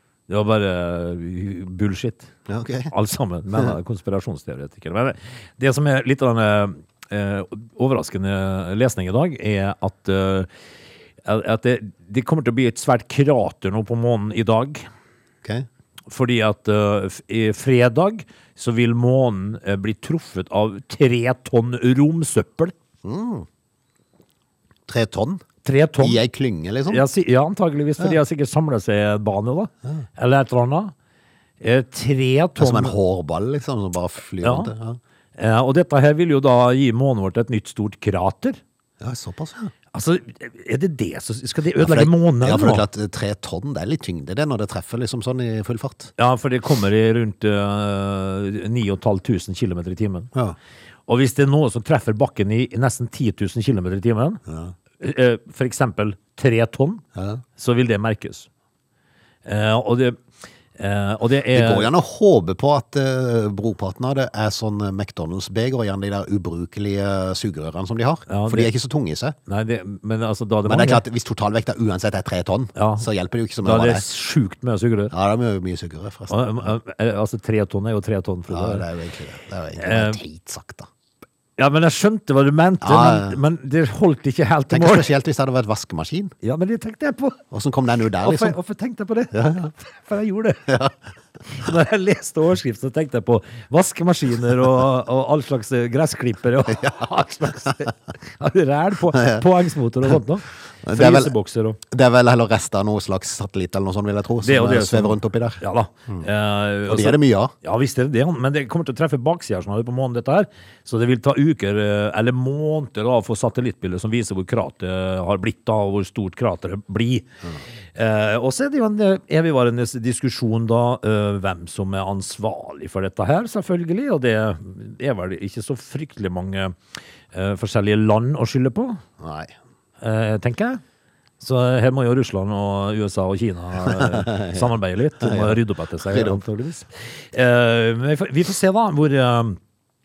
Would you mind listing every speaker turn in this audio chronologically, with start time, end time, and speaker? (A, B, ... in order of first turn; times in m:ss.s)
0:00.3-0:02.3 A
0:02.5-0:02.9 B
0:02.9-0:10.5 A
0:11.2-0:14.9 A
0:16.1-0:22.7 A
0:23.0-0:23.5 B
0:24.9-0:25.4 B
0:25.6-0:26.2 A
0:26.0-0:27.0 B
0:26.9-0:30.9 A
0:31.6-0:33.0 A
0:32.6-0:35.0 B
0:34.4-0:34.7 A
0:35.4-0:38.6 A
0:39.0-0:39.7 B
0:39.9-0:42.8 A
0:41.8-0:46.1 B
0:46.2-0:50.3 A
0:51.1-0:54.4 A
0:54.5-0:54.7 B
0:55.0-0:57.0 A
0:57.2-0:57.4 B
0:57.6-0:58.5 A
0:59.4-1:00.2 A
1:00.8-1:01.9 A
1:01.5-1:09.4 B
1:08.3-1:08.7 A
1:09.5-1:11.0 A
1:10.6-1:14.0 B
1:12.8-1:13.1 A
1:13.6-1:15.1 A
1:15.1-1:16.7 B
1:16.3-1:18.8 A
1:18.5-1:20.9 B
1:19.8-1:20.2 A
1:21.6-1:25.1 A
1:22.8-1:23.4 B
1:24.7-1:26.3 B
1:26.4-1:27.4 A
1:27.5-1:28.6 B
1:28.2-1:30.7 A
1:29.3-1:29.7 B
1:30.7-1:30.9 B
1:31.5-1:41.8 A
1:39.1-1:39.4 B
1:40.8-1:41.3 B
1:41.9-1:46.3 B
1:44.4-1:57.3 A
1:46.9-1:47.5 B
1:57.9-2:06.8 A
2:07.3-2:09.0 A
2:09.2-2:09.5 B
2:10.0-2:10.8 A
2:11.4-2:19.6 A
2:13.8-2:16.4 B